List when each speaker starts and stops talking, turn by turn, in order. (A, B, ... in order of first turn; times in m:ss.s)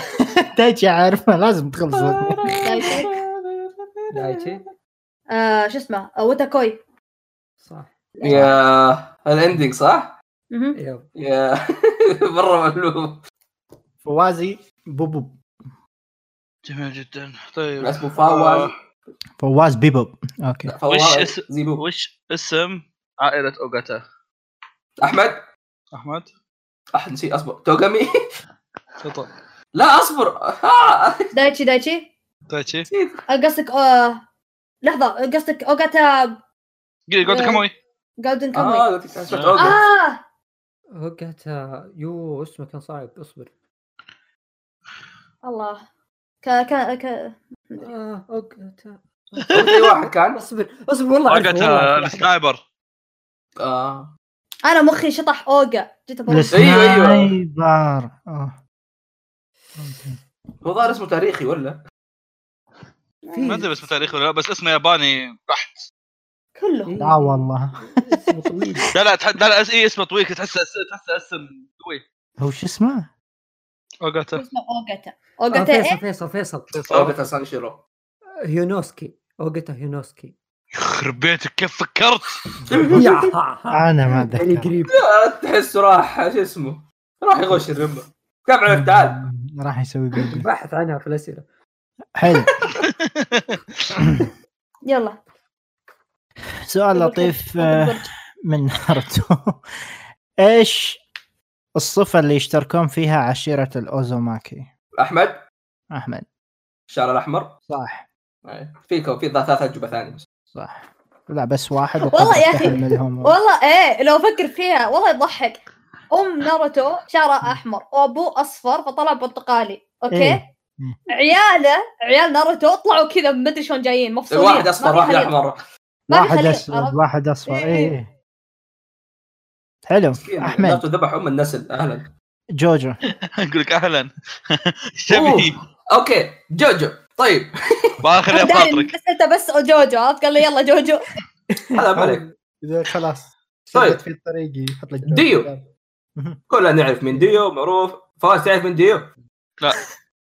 0:00.1-0:02.7 A
0:02.5-0:04.3 B
0:02.6-0:03.1 C
0:04.1-0:04.6 D
0:05.3-0:06.8 C
0:07.6-0:07.9 D
0:08.2-0:08.5 C
0:08.2-0:10.1 B
0:10.5-0:10.8 C
0:10.7-0:11.1 D
0:11.2-0:13.2 B
0:14.0-0:15.4 A
0:16.6-0:18.7 E
0:17.8-0:18.7 B
0:19.4-0:20.7 A
0:20.7-0:21.8 B
0:20.9-0:24.0 E
0:25.0-0:25.5 B
0:25.9-0:26.3 E
0:26.9-0:28.1 B
0:29.0-0:29.3 E
0:29.7-0:31.3 B
0:31.3-0:32.1 C
0:32.5-0:32.9 E
0:32.9-0:33.2 B
0:33.3-0:34.2 C
0:34.8-0:36.4 C
0:37.1-0:37.7 E
0:37.2-0:37.6 C
0:38.2-0:38.9 C
0:38.5-0:39.8 B
0:39.3-0:39.7 E
0:39.6-0:40.2 C
0:40.9-0:43.5 D
0:45.4-0:45.8 C
0:46.4-0:47.9 C
0:47.8-0:52.3 D
0:49.5-0:50.4 B
0:51.3-0:52.6 E
0:53.6-0:54.1 B
0:54.6-0:56.6 C
0:56.3-0:58.6 A
0:56.5-0:57.3 B
0:59.8-1:00.2 A
1:00.6-1:01.8 B
1:03.2-1:03.6 C
1:03.3-1:03.7 D
1:03.4-1:05.9 E
1:06.6-1:06.9 C
1:06.8-1:08.9 D
1:07.0-1:08.2 A
1:08.9-1:12.0 E
1:12.4-1:13.1 A
1:14.0-1:14.4 E
1:14.3-1:16.0 C
1:15.5-1:16.8 D
1:16.7-1:17.2 E
1:16.9-1:17.8 B
1:18.4-1:20.3 D
1:20.7-1:22.4 E
1:22.6-1:23.0 A
1:22.7-1:23.3 B
1:22.9-1:24.9 D
1:23.7-1:24.7 A
1:24.9-1:29.2 B
1:28.7-1:30.4 A
1:30.2-1:31.4 D
1:32.1-1:32.5 A
1:33.1-1:33.6 E
1:34.0-1:34.3 A
1:34.8-1:35.2 C
1:36.6-1:39.6 A
1:36.9-1:38.1 C
1:40.4-1:41.0 A
1:41.7-1:44.7 A
1:45.0-1:45.4 B
1:45.9-1:46.2 A
1:46.9-1:47.6 B
1:47.7-1:48.0 A
1:48.4-1:50.2 B
1:50.5-1:53.4 A
1:52.1-2:00.4 C
2:00.1-2:01.0 A
2:01.1-2:05.3 C
2:04.3-2:05.6 B
2:06.1-2:07.9 C
2:06.1-2:08.1 A
2:09.8-2:10.8 A
2:10.1-2:12.1 B
2:12.6-2:13.0 A
2:13.1-2:15.6 E
2:15.1-2:17.9 B
2:18.0-2:18.9 E
2:18.3-2:21.0 C
2:21.5-2:26.4 A
2:21.7-2:22.2 B
2:23.7-2:24.0 B
2:25.0-2:25.5 B
2:26.5-2:29.1 B